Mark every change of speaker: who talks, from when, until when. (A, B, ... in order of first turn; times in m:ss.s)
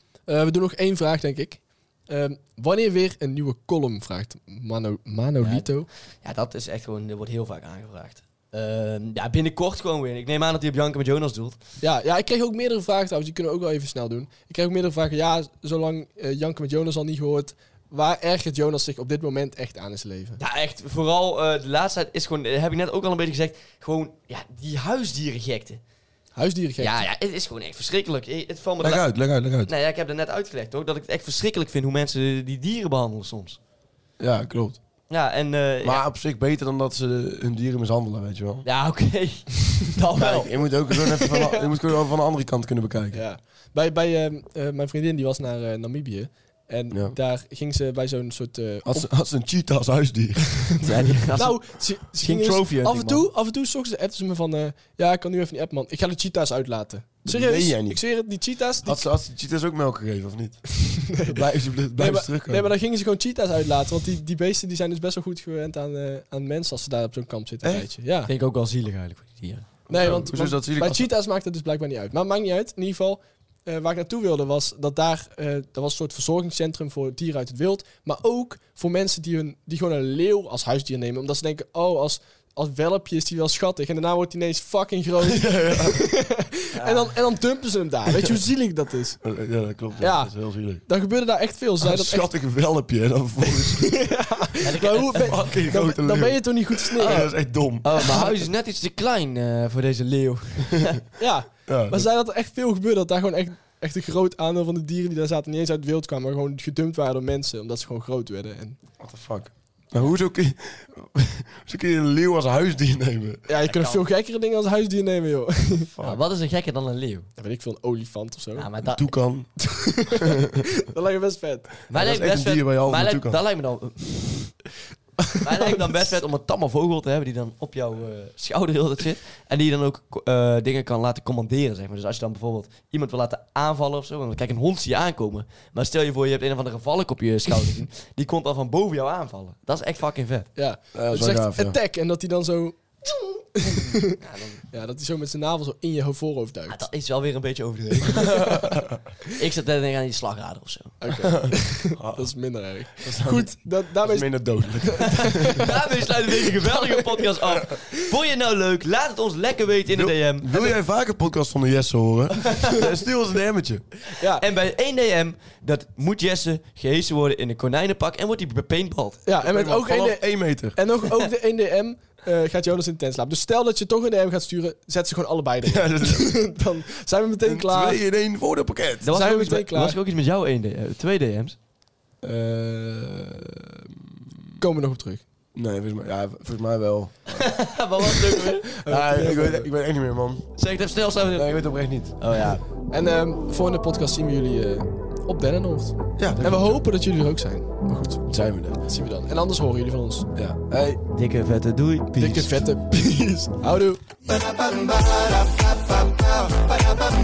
0:00.3-0:05.9 A
0:05.4-0:11.6 B
0:11.8-0:20.4 A
0:20.4-0:25.8 B
0:26.3-0:27.0 A
0:26.8-0:33.6 B
0:28.8-0:29.7 C
0:34.2-0:34.8 C
0:35.1-0:36.0 B
0:35.8-0:38.6 C
0:38.6-0:40.6 B
0:40.2-0:43.2 C
0:41.3-0:41.7 A
0:43.1-0:49.1 A
0:46.9-0:47.2 C
0:48.8-0:50.6 C
0:50.4-0:50.8 A
0:50.8-0:53.3 B
0:51.3-0:59.1 A
0:57.2-0:58.2 C
0:58.8-1:00.6 C
1:00.8-1:08.3 A
1:01.2-1:02.7 C
1:07.6-1:07.9 C
1:08.2-1:09.8 B
1:09.9-1:11.0 C
1:09.9-1:29.2 A
1:25.2-1:26.0 C
1:26.8-1:27.1 B
1:29.2-1:30.8 C
1:30.0-1:30.3 A
1:30.8-1:32.3 A
1:31.8-1:33.9 C
1:33.4-1:37.3 A
1:34.6-1:35.5 B
1:35.2-1:38.3 C
1:37.0-1:37.3 B
1:37.8-1:41.0 B
1:41.2-1:48.8 A
1:41.6-1:42.0 C
1:49.0-1:53.4 C
1:53.5-1:55.9 A
1:53.6-1:54.0 B
1:56.0-1:57.3 B
1:57.4-1:58.7 A
1:58.5-1:59.1 B
1:58.8-1:59.5 C
1:59.6-2:01.7 A
2:00.3-2:00.6 C
2:01.9-2:03.4 C
2:01.9-2:04.6 B
2:05.4-2:20.5 B
2:20.6-2:26.8 A
2:20.9-2:21.8 C
2:24.2-2:24.6 B
2:26.7-2:28.6 B
2:28.2-2:29.0 C
2:29.3-2:31.0 B
2:31.0-2:35.8 A
2:31.3-2:32.3 C
2:33.0-2:35.6 C
2:35.1-2:40.7 B
2:39.9-2:43.9 C
2:42.3-2:42.9 B
2:44.1-2:44.4 A
2:44.3-2:49.2 B
2:49.2-2:58.0 A
2:49.4-2:50.8 C
2:55.6-2:56.3 C
2:57.4-2:59.1 C
2:59.0-3:01.6 B
2:59.0-3:00.0 A
3:02.2-3:03.9 C
3:04.6-3:05.2 A
3:05.5-3:07.6 C
3:07.3-3:08.7 B
3:08.6-3:09.7 A
3:08.9-3:10.4 C
3:10.6-3:12.6 B
3:11.3-3:12.2 C
3:12.9-3:20.3 A
3:16.2-3:16.7 C
3:18.2-3:18.8 C
3:20.3-3:21.0 C
3:21.1-3:22.6 B
3:22.2-3:24.6 A